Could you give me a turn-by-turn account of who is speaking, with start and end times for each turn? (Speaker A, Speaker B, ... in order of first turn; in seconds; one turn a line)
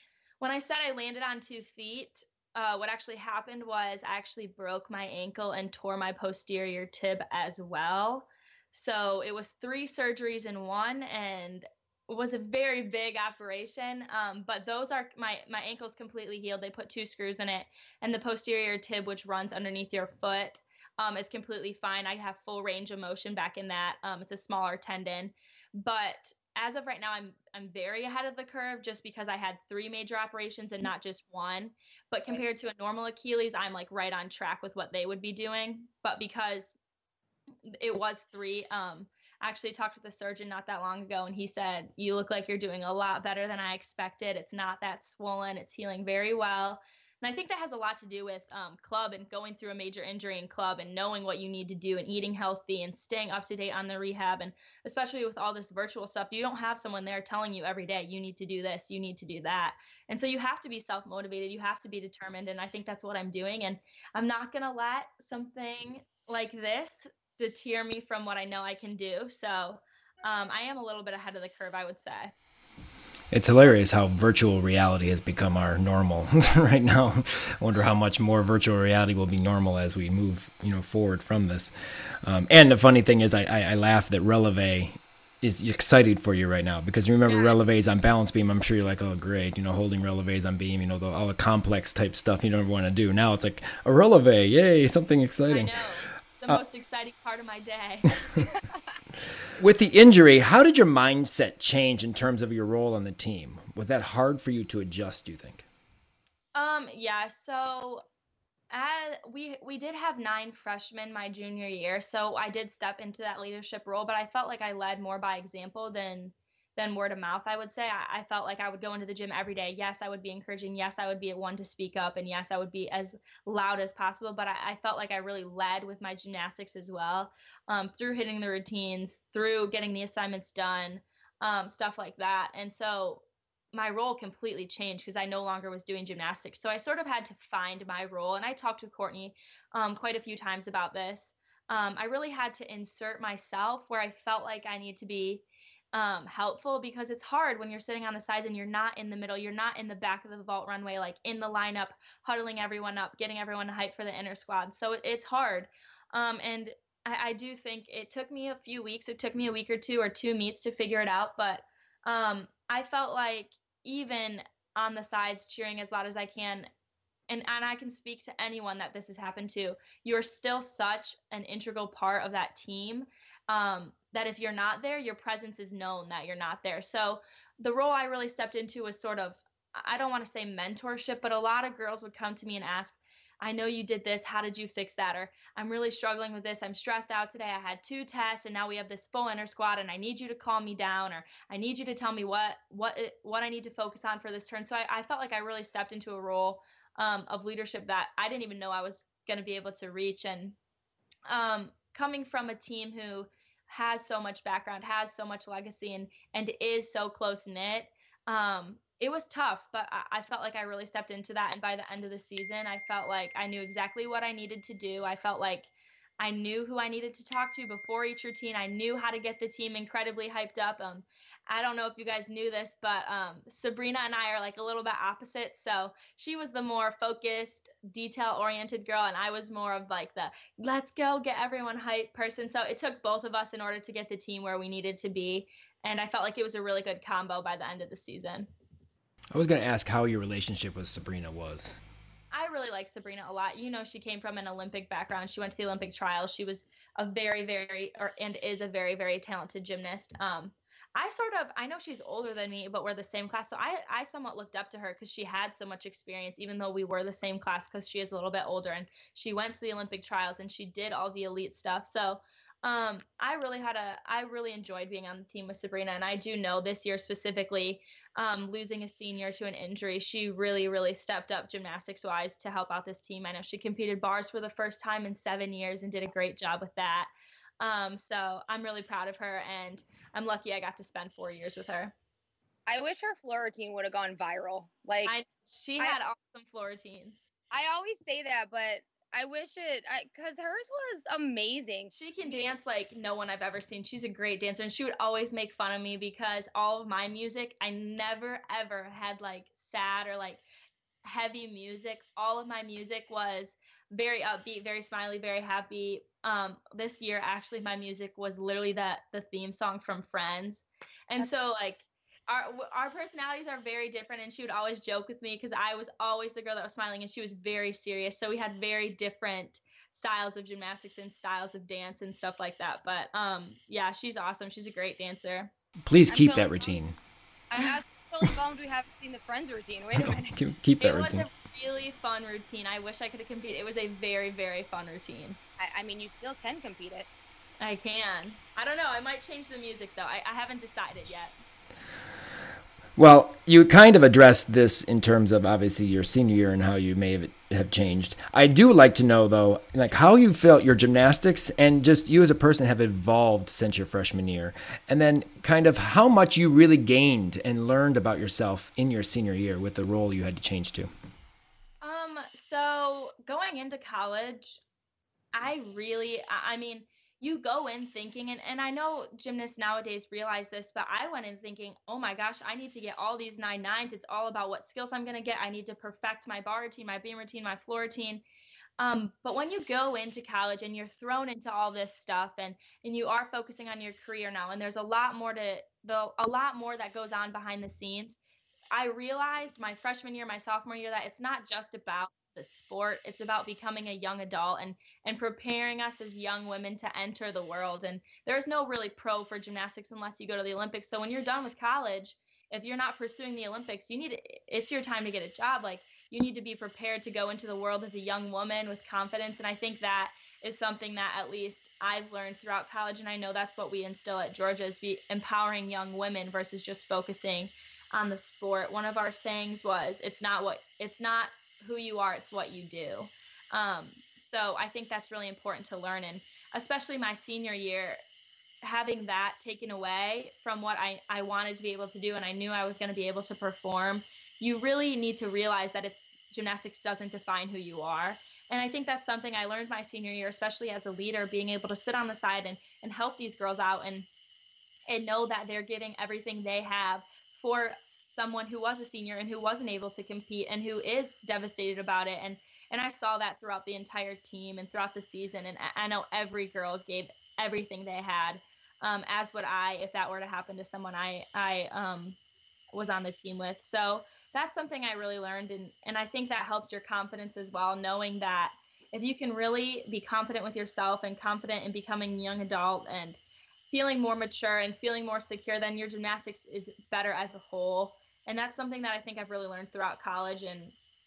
Speaker A: 0.4-36.8
Speaker A: 37.7-72.3
Speaker B: 73.3-81.7
Speaker B: 82.2-95.8
Speaker A: 87.3-87.6
Speaker A: 95.5-98.5
Speaker B: 99.6-105.7
Speaker A: 106.5-108.0
Speaker A: 108.7-133.2
Speaker A: 133.7-166.7
Speaker A: 167.3-200.6
Speaker A: 201.3-238.5
Speaker B: 239.3-241.8
Speaker A: 242.3-281.9
Speaker C: 282.7-285.1
Speaker A: 285.1-287.2
Speaker C: 287.5-292.4
Speaker A: 291.9-300.4
Speaker A: 301.0-325.5
Speaker B: 325.9-327.0
Speaker C: 326.1-326.7
Speaker C: 327.5-330.4
Speaker B: 329.9-331.3
Speaker A: 330.8-335.4
Speaker C: 335.6-337.1
Speaker A: 337.6-341.4
Speaker B: 343.0-360.9
Speaker A: 361.8-364.6
Speaker A: 365.3-378.2
Speaker A: 378.8-388.2
Speaker A: 388.7-428.0
Speaker A: 428.6-444.1
Speaker A: 444.9-462.2
Speaker A: 462.7-473.2
Speaker A: 473.7-480.8